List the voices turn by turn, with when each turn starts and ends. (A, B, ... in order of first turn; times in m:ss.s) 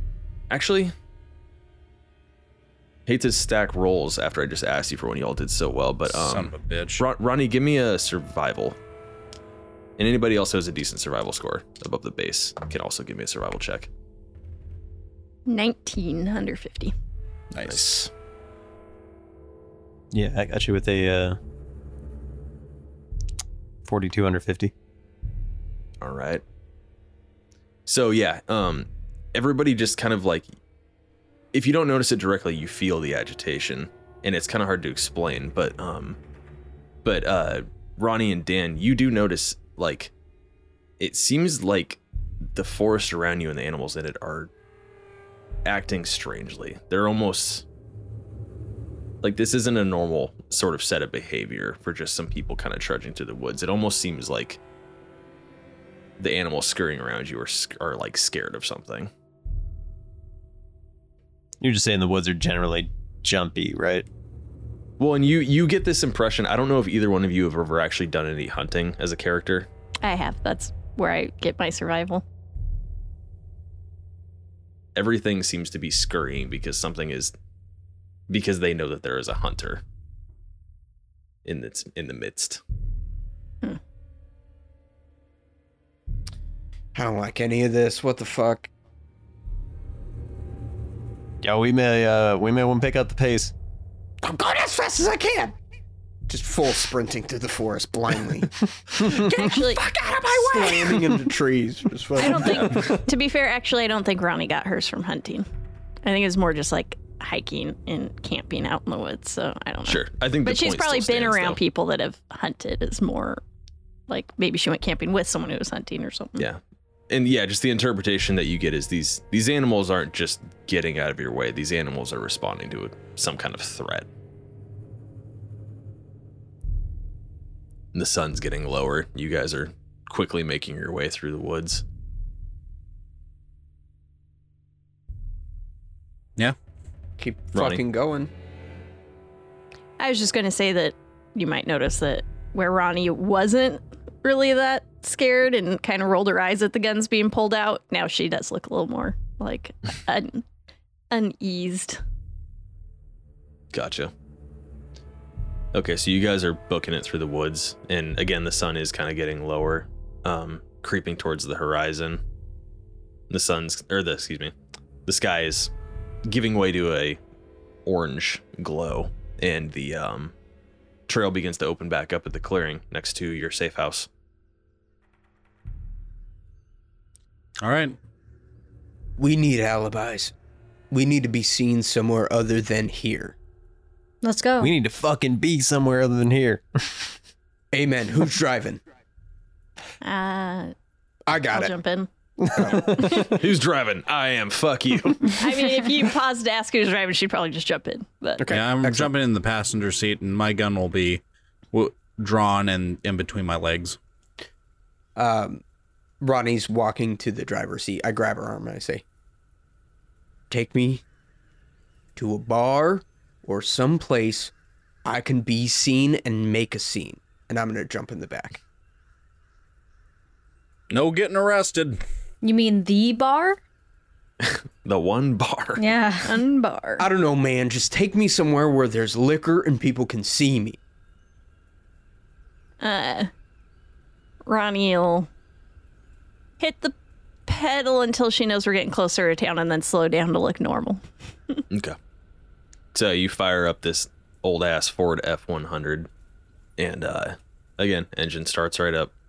0:00.5-0:00.9 A
0:03.1-0:08.8 A
0:06.1-0:07.0 B
0:10.0-0:13.9 A
0:15.4-0:16.9 C
0:17.5-0:18.1 B
0:17.6-0:18.1 A
0:20.1-0:21.4 D
0:23.8-0:24.7 D
0:26.0-0:26.4 A
0:27.8-0:30.5 A
0:31.5-0:36.2 A
0:37.0-0:40.1 A
0:41.0-0:42.0 A
0:42.5-0:44.5 A
0:45.6-0:47.6 A
0:49.2-0:54.6 A
0:56.2-0:59.1 A
1:01.6-1:04.1 D
1:05.0-1:09.7 A
1:10.0-1:12.2 C
1:14.9-1:17.3 A
1:18.3-1:19.8 A
1:21.4-1:22.6 A
1:26.9-1:28.7 E
1:31.4-1:33.5 D
1:34.2-1:35.5 E
1:36.3-1:43.0 E
1:38.9-1:40.9 C
1:42.2-1:45.4 C
1:46.0-1:53.4 C
1:49.8-1:51.6 A
1:54.1-1:56.4 C
1:56.4-2:04.1 A
2:07.9-2:11.8 A
2:17.2-2:18.3 E
2:17.5-2:17.8 A
2:20.0-2:30.4 C
2:31.1-2:32.0 C
2:33.7-2:34.1 A
2:35.7-2:42.2 A
2:43.3-2:44.5 A
2:45.0-2:45.7 A
2:46.2-2:47.2 A
2:47.8-2:50.3 A
2:51.1-2:54.1 A
2:57.6-2:57.9 B
2:59.2-3:00.3 E
3:00.9-3:03.4 E
3:04.2-3:04.7 F
3:04.6-3:07.2 D
3:07.7-3:08.8 E
3:10.0-3:10.7 C
3:11.3-3:11.7 E
3:11.3-3:13.3 C
3:12.5-3:13.3 E
3:13.1-3:15.4 A
3:15.3-3:18.4 C
3:18.4-3:19.1 E
3:18.5-3:24.0 B
3:25.2-3:25.6 E
3:26.2-3:29.0 E
3:30.5-3:31.0 E
3:32.2-3:34.5 E
3:35.0-3:38.6 E
3:40.9-3:42.0 B
3:42.4-3:43.6 F
3:44.4-3:45.9 A
3:45.8-3:46.4 F
3:46.2-3:47.1 C
3:47.0-3:50.8 E
3:52.8-3:53.3 C
3:54.4-3:55.3 C
3:56.6-3:56.9 C
3:57.5-4:01.0 C
4:01.7-4:02.0 A
4:02.9-4:06.1 A
4:06.8-4:09.1 A